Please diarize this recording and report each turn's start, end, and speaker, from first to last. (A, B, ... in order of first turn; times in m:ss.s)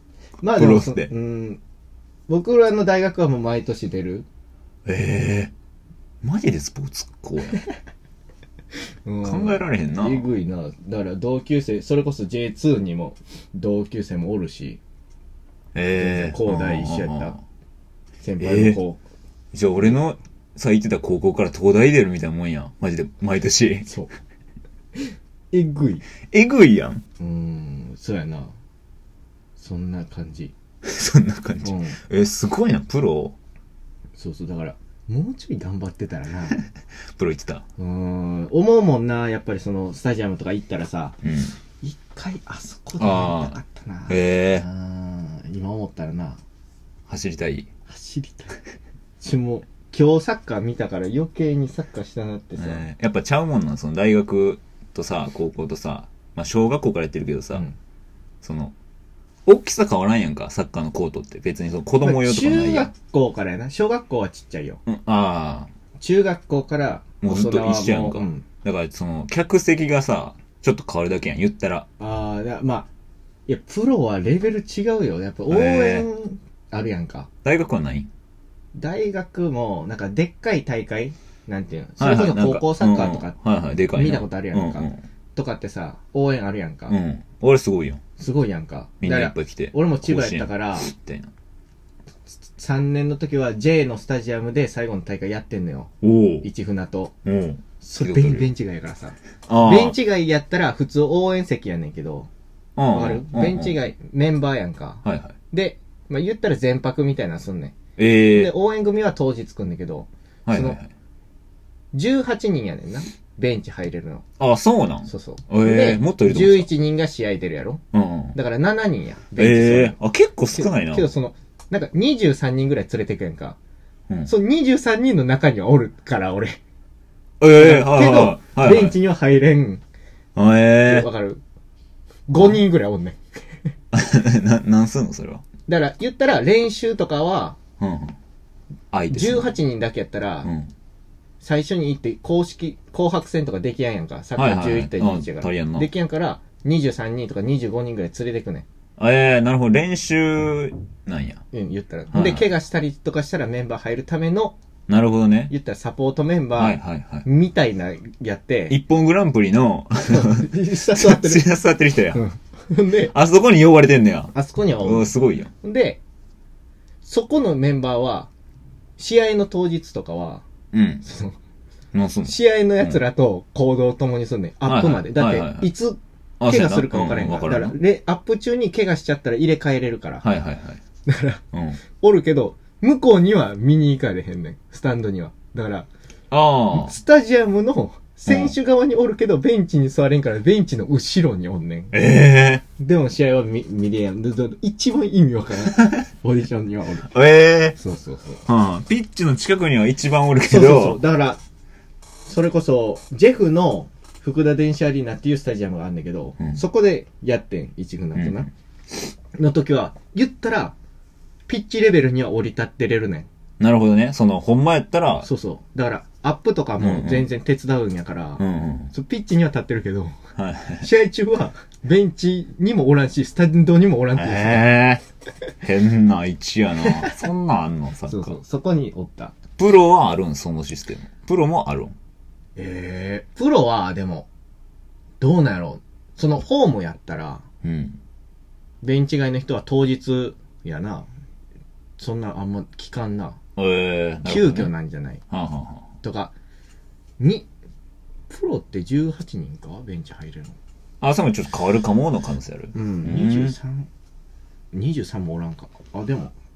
0:00.4-0:01.6 A
0:00.4-0:01.1 B
0:02.3-0:04.3 A
0:04.8-0:05.5 B
0:06.2-0:07.6 B
0:09.0-0:14.8 A
0:09.2-0:10.3 B
0:15.7-0:17.4 B
0:15.9-0:17.4 A
0:18.2-0:19.0 A
0:18.4-0:18.8 B
0:19.5-0:23.9 B
0:23.8-0:24.1 A
0:25.0-0:26.0 A
0:26.2-0:27.0 B
0:27.2-0:28.5 A
0:29.6-0:30.5 A
0:30.8-0:33.4 B
0:31.6-0:32.0 A
0:34.2-0:36.6 A
0:37.2-0:37.6 B
0:37.8-0:41.2 A
0:41.2-0:41.6 B
0:41.8-0:46.4 A
0:43.0-0:43.6 B
0:44.1-0:44.6 B
0:47.1-0:47.7 B
0:47.9-0:48.6 A
0:49.2-0:52.8 A
0:52.6-0:57.6 B
0:58.4-0:58.7 B
0:59.4-1:02.9 B
1:02.0-1:04.8 A
1:04.8-1:05.7 B
1:06.0-1:08.4 A
1:07.2-1:11.9 B
1:12.0-1:12.9 A
1:13.4-1:17.3 A
1:15.5-1:16.1 B
1:17.4-1:18.1 B
1:18.7-1:23.4 A
1:22.0-1:25.0 B
1:23.9-1:27.0 A
1:26.9-1:28.0 B
1:28.2-1:30.9 A
1:29.0-1:31.3 B
1:32.6-1:35.9 A
1:36.0-1:36.5 B
1:36.4-1:37.1 A
1:37.2-1:38.5 B
1:37.8-1:42.3 A
1:39.5-1:40.0 B
1:42.8-1:43.8 B
1:42.9-1:47.8 A
1:45.0-1:45.3 B
1:48.0-1:48.5 B
1:48.3-1:50.8 A
1:50.5-1:50.9 B
1:51.9-1:54.2 A
1:54.4-1:56.7 B
1:55.0-1:57.8 A
1:57.9-1:58.3 B
1:58.3-2:00.0 A
1:59.4-2:01.1 B
2:00.5-2:03.6 A
2:04.2-2:06.6 A
2:07.4-2:09.0 B
2:07.5-2:09.8 A
2:10.3-2:11.1 B
2:10.8-2:11.4 A
2:12.3-2:13.2 A
2:13.9-2:15.4 B
2:15.7-2:17.6 A
2:17.8-2:18.2 B
2:18.9-2:19.5 B
2:19.1-2:20.5 A
2:20.4-2:20.7 B
2:21.4-2:28.6 A
2:24.4-2:25.9 B
2:29.0-2:31.4 B
2:31.5-2:34.6 A
2:32.1-2:32.5 B
2:34.9-2:35.5 B
2:35.5-2:38.8 A
2:36.6-2:37.2 B
2:38.7-2:42.2 B
2:40.1-2:41.5 A
2:42.1-2:43.1 A
2:43.1-2:45.5 B
2:44.3-2:46.0 A
2:47.0-2:48.3 A
2:49.0-2:50.4 A
2:50.7-2:51.0 B
2:51.0-2:51.4 A
2:51.9-2:53.0 B
2:52.2-3:00.2 A
2:54.6-2:55.7 B
2:56.4-2:57.7 B
3:00.2-3:00.8 B
3:01.0-3:01.4 A
3:01.5-3:01.8 B
3:02.0-3:05.9 A
3:06.3-3:06.9 B
3:06.7-3:12.0 A
3:08.3-3:08.5 B
3:11.9-3:12.6 B
3:12.8-3:17.1 A
3:17.1-3:17.8 B
3:17.8-3:18.4 A
3:18.4-3:21.0 B
3:20.4-3:21.4 A
3:22.2-3:28.5 A
3:28.2-3:28.4 B
3:29.3-3:30.7 A
3:31.5-3:33.3 A
3:33.6-3:35.3 B
3:35.2-3:40.2 A
3:36.8-3:37.3 B
3:38.4-3:38.9 B
3:40.4-3:40.9 B
3:40.8-3:44.7 A
3:44.1-3:45.0 B
3:45.6-3:48.4 B
3:46.9-3:47.2 A
3:48.1-3:49.3 A
3:49.6-3:52.0 B
3:52.6-3:54.3 A
3:55.2-3:57.4 A
3:57.6-3:58.0 B
3:58.8-4:01.1 A
4:02.0-4:03.4 A
4:03.6-4:04.7 B
4:04.2-4:05.2 A
4:05.3-4:05.9 B
4:06.0-4:06.3 A
4:07.2-4:07.5 A
4:08.3-4:10.6 A
4:11.0-4:13.6 B
4:12.7-4:13.9 A
4:14.7-4:16.3 A